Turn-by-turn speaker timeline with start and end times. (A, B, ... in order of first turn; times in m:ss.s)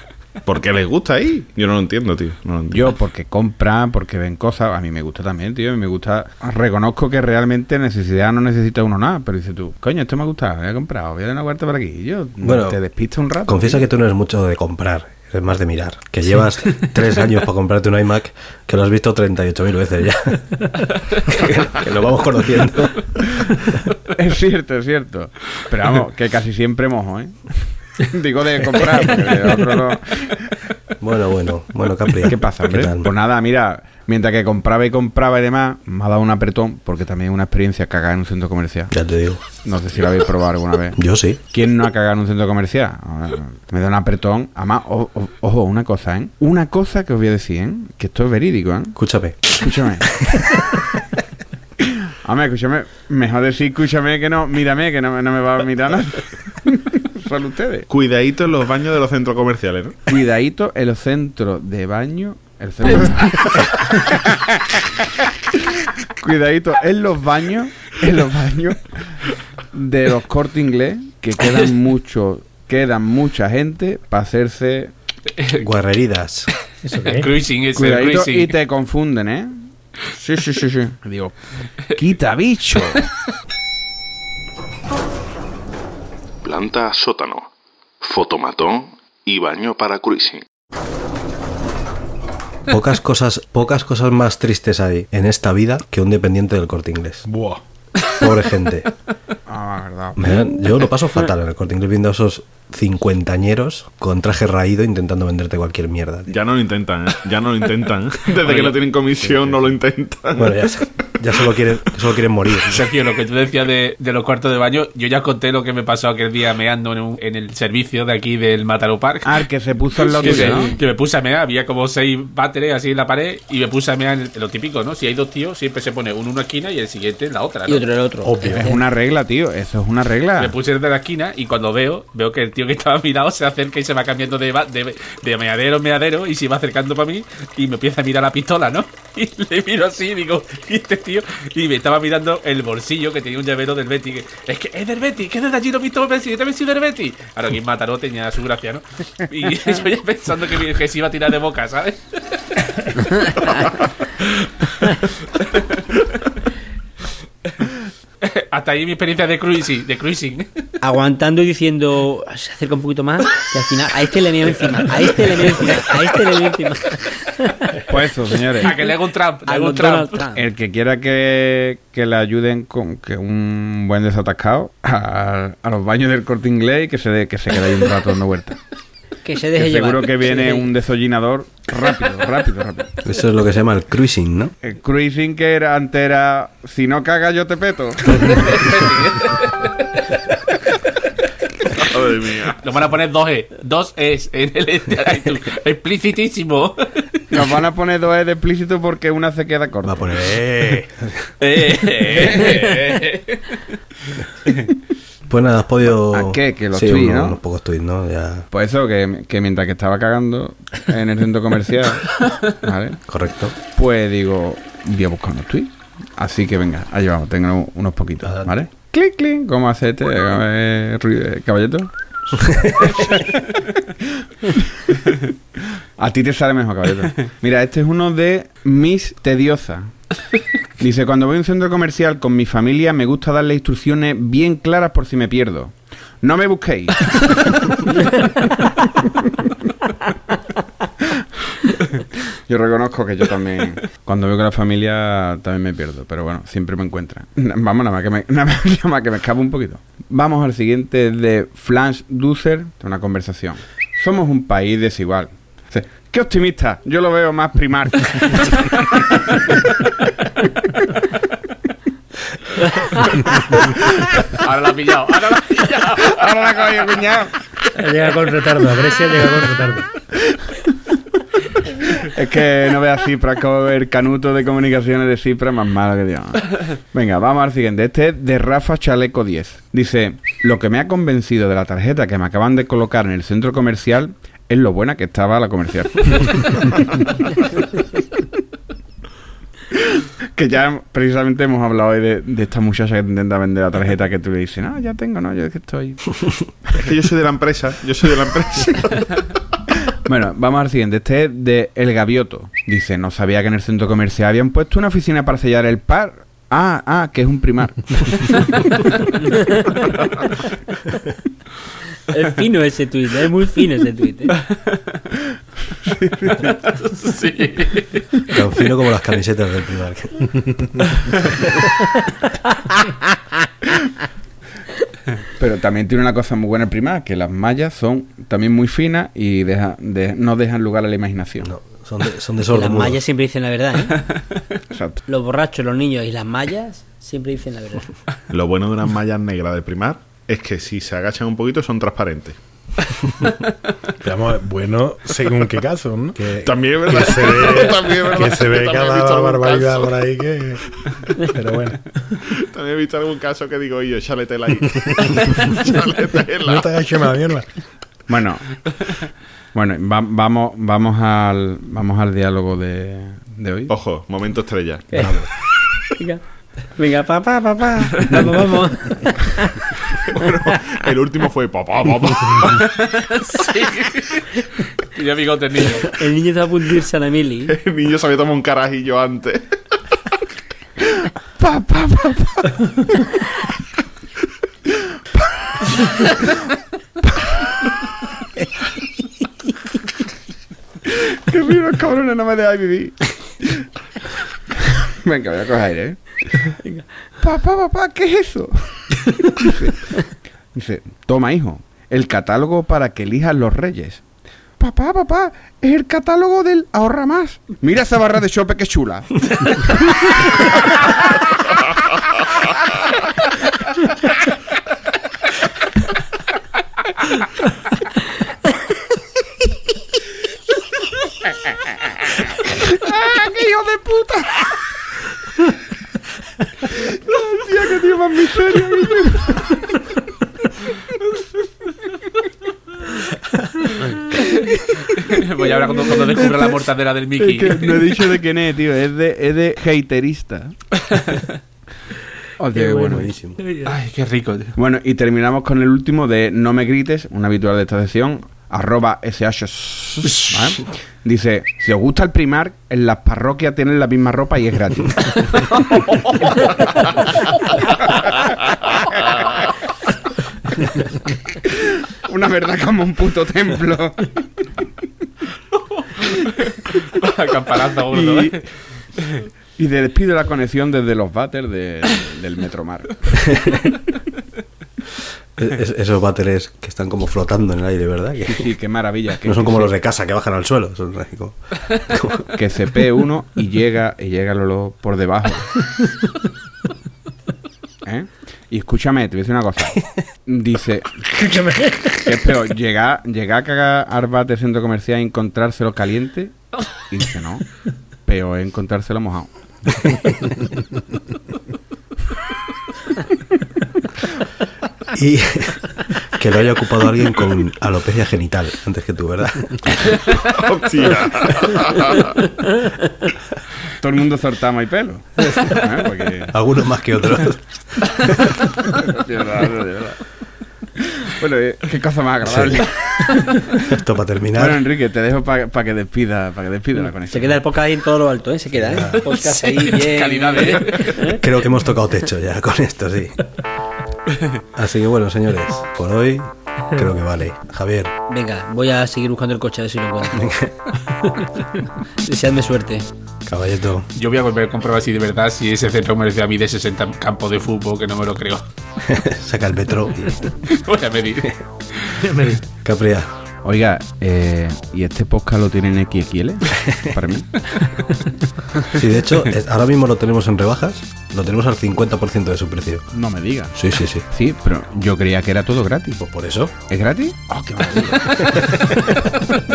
0:00.4-0:02.9 A
0:02.7-0:13.8 B
0:12.4-0:12.8 C
0:13.4-0:23.7 C
0:24.1-0:30.5 B
0:31.0-0:33.1 C
0:32.2-0:38.9 B
0:38.9-0:39.4 C
0:39.6-0:49.0 B
0:41.0-0:41.4 C
0:49.0-0:50.4 C
0:49.5-0:50.2 B
0:52.2-0:57.9 B
0:57.9-0:59.9 A
1:00.1-1:05.1 B
1:06.2-1:09.2 B
1:09.7-1:14.9 B
1:15.4-1:15.6 D
1:15.6-1:16.5 C
1:16.8-1:17.3 E
1:17.0-1:18.5 D
1:17.7-1:21.4 B
1:22.0-1:23.0 B
1:26.4-1:27.5 F
1:28.0-1:30.4 F
1:32.7-1:37.2 C
1:37.2-1:37.6 G
1:38.1-1:38.9 C
1:39.5-1:40.4 B
1:40.2-1:46.3 C
1:46.3-1:50.5 A
1:48.4-1:48.8 D
1:50.3-1:52.8 C
1:52.7-1:59.5 D
1:59.2-2:00.8 B
2:00.0-2:07.8 D
2:00.2-2:00.7 H
2:07.7-2:08.8 H
2:08.2-2:08.8 G
2:08.5-2:10.6 B
2:10.4-2:32.6 D
2:33.1-2:33.7 H
2:38.2-2:40.6 D
2:40.8-2:47.8 H
2:47.9-2:48.8 B
2:48.6-2:50.2 D
2:49.4-2:50.4 H
2:50.3-2:58.6 B
2:59.2-3:00.7 H
2:59.5-3:03.0 B
3:03.0-3:04.5 C
3:04.6-3:08.6 B
3:08.2-3:10.0 D
3:11.8-3:12.6 A
3:12.6-3:17.2 D
3:17.3-3:20.1 B
3:19.8-3:21.3 C
3:21.4-3:23.6 D
3:22.4-3:22.9 H
3:25.3-3:28.4 C
3:25.9-3:27.4 B
3:28.5-3:33.0 B
3:33.1-3:33.5 C
3:33.7-3:41.9 B
3:38.2-3:38.5 C
3:42.3-3:43.0 C
3:42.9-3:43.3 B
3:46.0-3:50.0 B
3:50.8-3:57.5 B
3:59.0-3:59.5 B
4:02.5-4:19.2 B
4:24.3-4:26.2 D
4:26.0-4:27.3 B
4:27.7-4:29.9 E
4:31.9-4:46.8 B
4:50.4-4:56.2 B
4:56.8-4:59.0 A
5:00.0-5:08.3 B
5:09.3-5:09.8 H
5:12.1-5:14.4 H
5:14.5-5:14.8 D
5:15.8-5:16.5 B
5:16.4-5:18.0 D
5:18.3-5:20.3 C
5:25.4-5:31.5 B
5:31.4-5:33.0 C
5:32.5-5:34.0 H
5:34.7-5:35.0 B
5:35.0-5:37.9 H
5:38.3-5:42.4 A
5:44.0-5:50.6 G
5:46.4-5:50.0 A
5:51.2-5:51.9 G
5:52.4-5:56.7 A
5:56.4-5:57.5 G
5:58.1-5:58.6 B
5:59.5-6:03.7 B
6:03.7-6:05.1 A
6:04.9-6:05.2 H
6:05.0-6:05.2 C
6:05.9-6:09.5 H
6:10.1-6:12.7 A
6:12.7-6:14.4 D
6:14.9-6:15.9 D
6:15.8-6:17.5 H
6:17.4-6:19.5 A
6:21.4-6:22.8 B
6:25.4-6:26.0 B
6:30.9-6:33.6 B
6:35.0-6:36.5 B
6:36.5-6:36.8 H
6:37.2-6:39.7 B
6:40.5-6:44.0 B
6:44.6-6:50.1 B
7:02.7-7:04.6 B
7:06.9-7:09.6 B
7:14.9-7:17.9 D
7:17.2-7:20.6 B
7:20.9-7:21.2 D
7:22.4-7:23.1 B
7:22.5-7:23.7 E
7:22.9-7:23.4 C
7:23.6-7:24.5 D
7:24.6-7:36.1 B
7:42.0-7:44.2 B
7:45.8-7:49.3 D
7:47.9-7:48.4 B
7:49.6-7:53.3 B
7:55.4-7:58.5 C
7:58.2-7:59.7 B
7:59.2-8:02.2 C
8:02.3-8:05.6 B
8:07.8-8:11.0 B
8:11.1-8:12.2 G
8:12.0-8:19.3 B
8:19.8-8:20.3 C
8:24.9-8:29.9 C
8:30.2-8:32.2 A
8:33.8-8:36.3 B
8:36.3-8:37.9 C
8:38.8-8:40.0 B
8:41.0-8:43.3 B
8:42.2-8:42.6 C
8:43.6-8:44.6 C
8:44.3-8:47.4 B
8:46.8-8:51.2 H
8:48.5-8:49.0 C
8:49.0-8:51.0 D
8:51.0-8:53.3 C
8:54.5-8:57.9 C
8:58.1-9:00.3 H
9:00.1-9:00.5 C
9:02.0-9:02.8 H
9:03.2-9:03.8 C
9:03.9-9:08.4 D
9:08.8-9:10.4 C
9:10.5-9:12.0 D
9:12.0-9:12.4 E
9:12.6-9:13.1 C
9:13.4-9:17.3 B
9:18.7-9:22.9 C
9:22.9-9:23.5 B
9:23.5-9:24.0 C
9:24.1-9:26.0 B
9:26.0-9:26.5 C
9:26.7-9:28.7 B